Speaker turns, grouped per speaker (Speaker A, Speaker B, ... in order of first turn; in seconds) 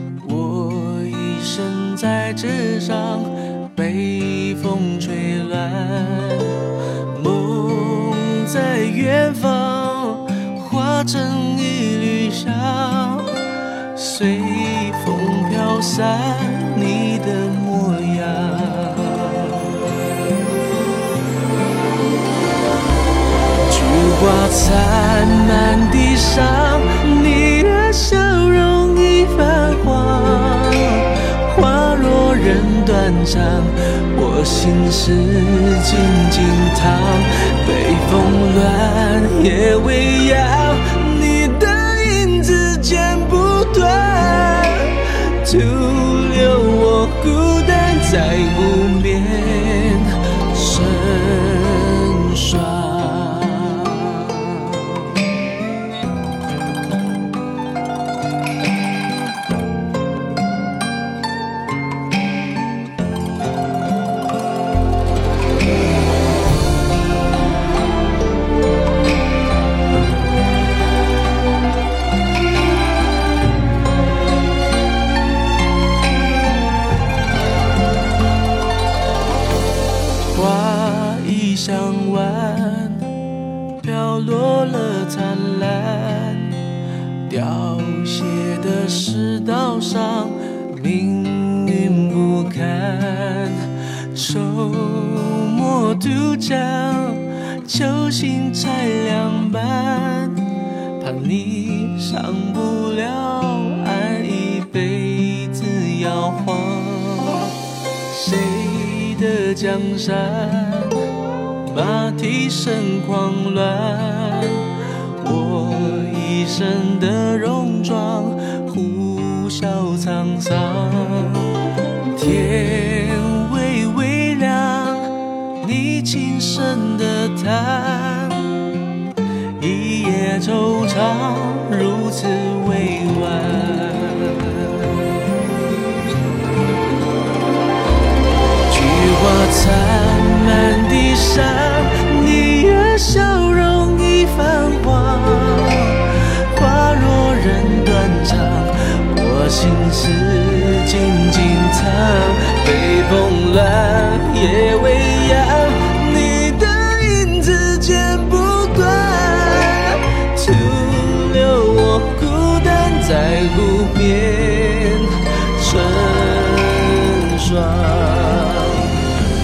Speaker A: 0.2-19.7, 23.7-55.1, 80.3-83.1, 83.8-86.6, 87.3-100.4, 101.0-107.5, 108.1-111.0, 111.7-121.5, 122.1-128.7, 129.6-135.0, 138.7-169.0